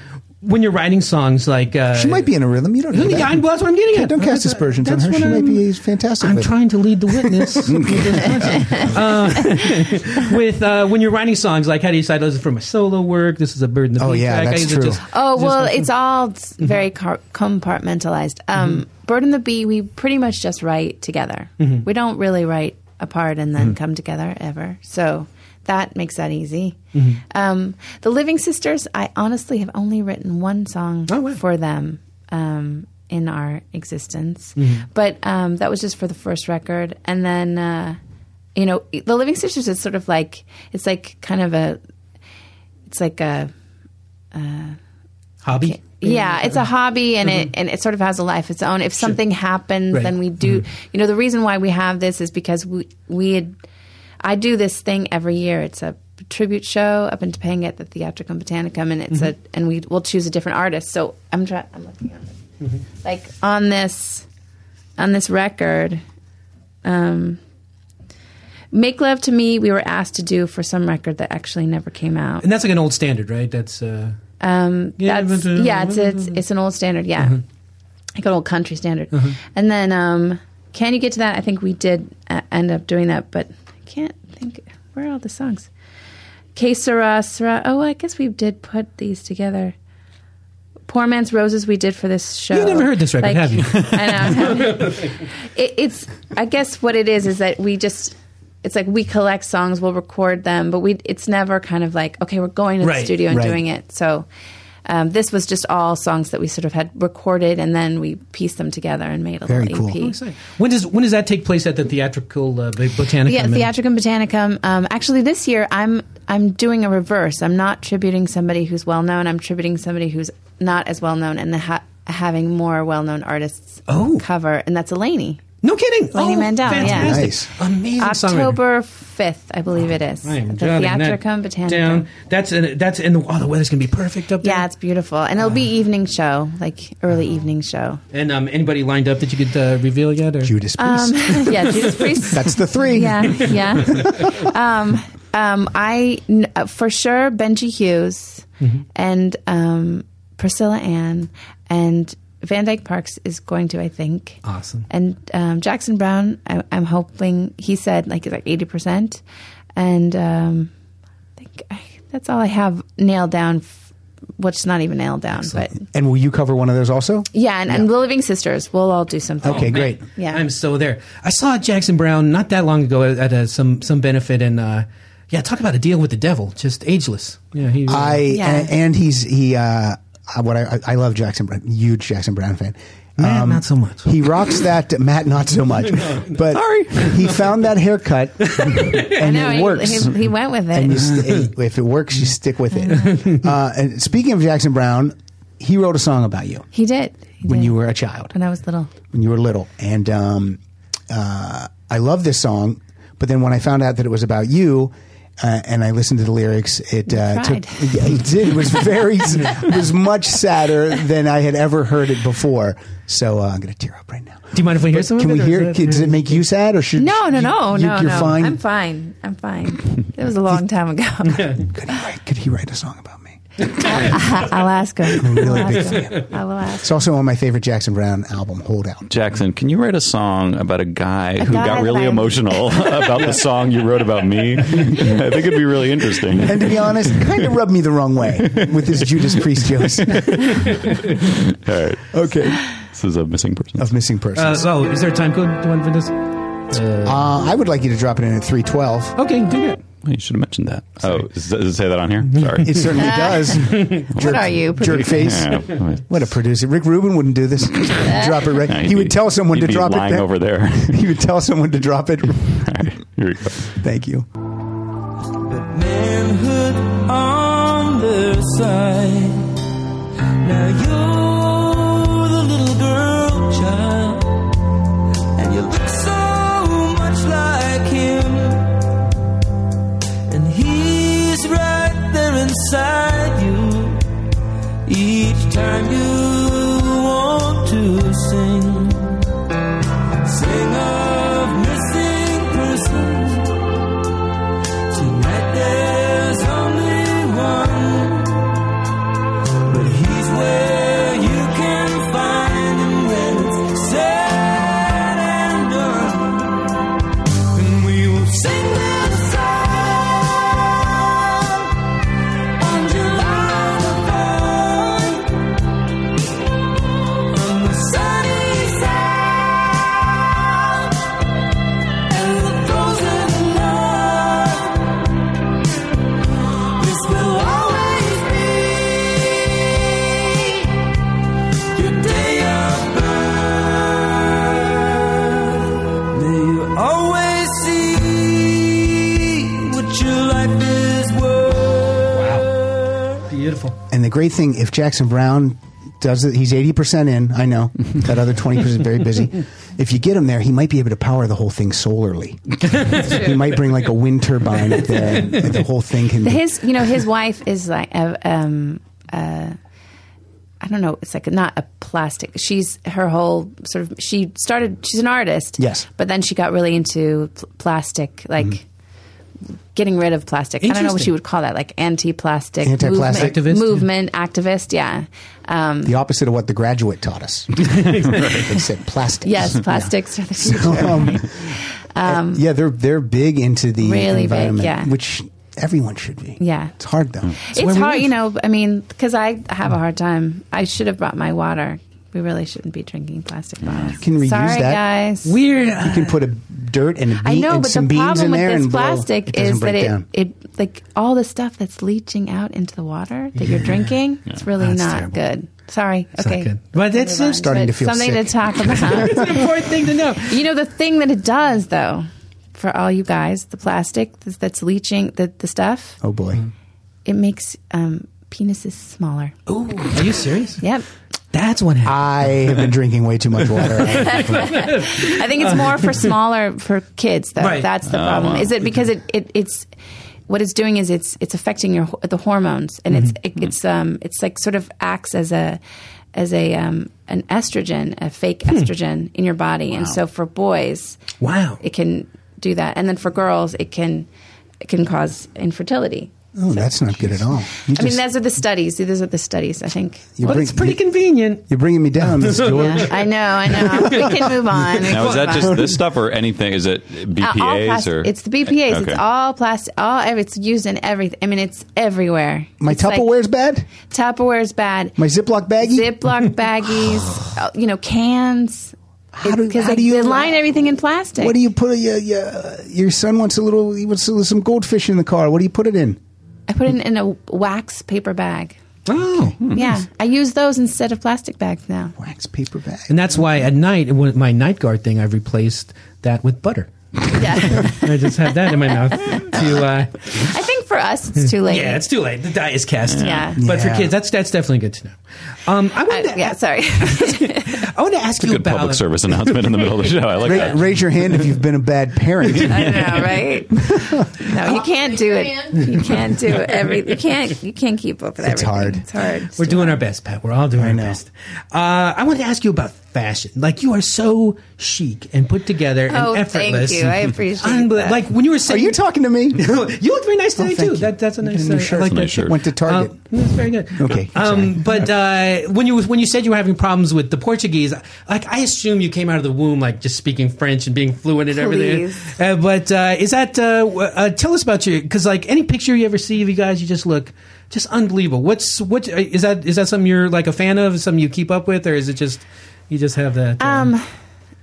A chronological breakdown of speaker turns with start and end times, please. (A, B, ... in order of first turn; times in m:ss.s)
0:00.4-0:02.3 A
0:01.9-0:06.5 B
0:02.9-0:05.6 A
0:06.2-0:15.9 A
0:07.1-0:08.8 B
0:14.0-0:15.0 B
0:15.1-0:26.8 C
0:21.6-0:21.8 A
0:26.9-0:27.2 A
0:27.3-0:38.0 C
0:31.1-0:31.4 A
0:34.6-0:34.9 A
0:38.6-0:41.8 C
0:42.9-0:43.5 C
0:44.3-0:44.8 C
0:45.4-0:46.7 A
0:45.6-0:53.5 C
0:47.2-0:47.5 A
0:49.9-0:50.6 A
0:54.2-1:02.3 C
1:03.0-1:04.2 C
1:05.0-1:06.0 C
1:06.8-1:07.4 C
1:08.7-1:12.4 C
1:12.4-1:14.2 A
1:14.4-1:17.4 C
1:15.0-1:16.4 A
1:18.2-1:25.7 C
1:26.6-1:29.8 C
1:30.9-1:35.0 C
1:32.5-1:35.1 A
1:35.6-1:44.3 C
1:42.8-1:43.3 A
1:43.3-1:43.6 B
1:44.9-1:50.1 C
1:49.5-1:50.0 B
1:50.0-1:53.7 A
1:53.3-2:05.4 C
2:03.9-2:04.2 A
2:05.6-2:08.6 A
2:06.1-2:07.2 C
2:06.7-2:07.5 B
2:08.0-2:12.1 C
2:10.2-2:14.7 A
2:14.4-2:18.0 C
2:18.1-2:20.6 A
2:20.4-2:21.6 B
2:20.8-2:34.4 C
2:21.5-2:21.9 A
2:22.2-2:24.4 B
2:23.9-2:24.3 A
2:34.4-2:34.9 A
2:34.9-2:39.2 C
2:39.8-2:40.7 C
2:41.4-2:43.7 C
2:44.4-2:45.7 C
2:45.7-2:47.9 B
2:47.3-2:50.4 C
2:49.4-2:58.3 A
2:49.4-2:50.0 B
2:57.9-3:16.7 B
2:58.3-2:58.7 C
3:03.2-3:04.3 A
3:05.9-3:06.4 A
3:06.9-3:07.5 A
3:08.4-3:09.2 A
3:09.2-3:11.0 C
3:11.0-3:11.5 A
3:12.9-3:13.2 C
3:13.0-3:13.4 A
3:16.7-3:17.8 C
3:17.4-3:18.4 B
3:18.3-3:18.9 C
3:19.1-3:38.6 B
3:27.1-3:27.9 C
3:34.5-3:36.4 A
3:37.0-3:41.5 C
3:41.3-3:41.6 A
3:41.6-3:44.1 B
3:43.6-3:44.3 A
3:44.0-3:46.9 C
3:45.2-3:49.1 B
3:45.4-3:46.3 A
3:49.1-3:57.2 D
3:51.4-3:52.6 C
3:56.4-4:00.8 B
4:00.1-4:03.9 D
4:00.4-4:01.0 A
4:02.1-4:02.6 B
4:03.8-4:04.7 B
4:04.4-4:06.2 A
4:06.7-4:07.3 A
4:07.0-4:09.2 B
4:09.2-4:09.8 A
4:10.0-4:13.3 D
4:12.4-4:12.6 A
4:12.6-4:22.7 B
4:13.0-4:13.5 C
4:13.6-4:14.1 A
4:14.2-4:16.1 D
4:14.2-4:14.9 C
4:18.0-4:18.4 C
4:18.6-4:21.0 D
4:22.5-4:23.7 D
4:23.7-4:24.3 B
4:25.5-4:29.4 E
4:30.4-4:34.4 E
4:35.4-4:38.7 E
4:40.3-4:44.0 E
4:44.9-4:49.1 E
4:50.3-4:53.5 E
4:54.9-4:58.6 E
4:59.7-5:06.6 E
5:07.6-5:11.7 E
5:12.6-5:15.5 E
5:17.3-5:20.9 E
5:22.1-5:25.0 E
5:26.8-5:30.7 E
5:31.8-5:34.8 E
5:36.2-5:42.4 E
5:42.1-5:42.5 A
5:43.3-5:43.8 A
5:43.9-5:56.8 B
5:52.7-5:53.7 A
5:54.7-5:55.6 A
5:56.2-5:59.5 C
6:00.6-6:08.6 C
6:05.6-6:05.9 B
6:09.8-6:15.9 C
6:10.6-6:11.1 A
6:12.6-6:13.4 B
6:12.9-6:13.9 A
6:15.8-6:27.4 B
6:17.8-6:18.2 A
6:18.1-6:18.4 D
6:19.2-6:21.2 C
6:22.0-6:22.4 C
6:23.8-6:24.9 C
6:26.4-6:26.7 C
6:27.5-6:35.3 C
6:27.6-6:28.1 A
6:33.6-6:34.0 D
6:34.0-6:34.9 B
6:35.2-6:36.2 A
6:35.8-6:40.1 B
6:37.2-6:49.2 C
6:43.4-6:43.9 A
6:44.6-6:45.1 A
6:46.2-6:47.5 A
6:47.3-6:49.5 B
6:48.8-6:50.4 A
6:50.3-6:56.0 C
6:56.0-6:56.4 B
6:57.1-6:59.3 C
6:59.5-7:00.6 A
7:01.3-7:02.7 A
7:01.8-7:04.7 B
7:03.5-7:06.1 A
7:04.3-7:09.7 C
7:07.4-7:07.7 A
7:07.8-7:08.8 D
7:10.3-7:15.6 C
7:12.9-7:13.2 A
7:16.2-7:21.0 C
7:21.2-7:21.6 A
7:21.6-7:24.1 C
7:24.6-7:26.7 C
7:26.4-7:28.0 B
7:27.8-7:30.1 C
7:30.2-7:30.8 B
7:30.2-7:31.4 A
7:31.5-7:33.6 B
7:32.0-7:35.6 A
7:32.5-7:35.6 C
7:34.8-7:39.0 D
7:35.3-7:35.8 B
7:37.2-7:43.1 C
7:42.6-7:43.7 B
7:43.9-7:45.0 C
7:45.0-7:46.0 B
7:45.6-7:48.7 C
7:49.1-7:50.6 B
7:49.2-7:51.4 C
7:51.2-7:56.0 B
7:56.5-7:58.6 C
7:58.9-7:59.5 A
7:59.4-8:01.9 C
8:02.0-8:03.0 B
8:02.9-8:10.3 A
8:07.1-8:07.8 C
8:10.2-8:11.8 C
8:11.2-8:20.0 A
8:12.9-8:13.3 D
8:13.0-8:13.4 C
8:13.4-8:13.9 B
8:15.9-8:17.6 C
8:18.2-8:20.7 D
8:20.2-8:23.0 B
8:22.5-8:29.8 C
8:22.6-8:23.1 D
8:23.6-8:24.2 B
8:28.2-8:28.9 B
8:29.4-8:38.8 A
8:30.6-8:31.0 B
8:35.9-8:38.0 C
8:38.5-8:39.6 B
8:39.3-9:03.7 A
8:40.4-8:43.0 B
8:41.8-8:42.4 D
8:43.8-8:44.8 B
8:51.3-8:52.2 C
9:03.4-9:03.9 C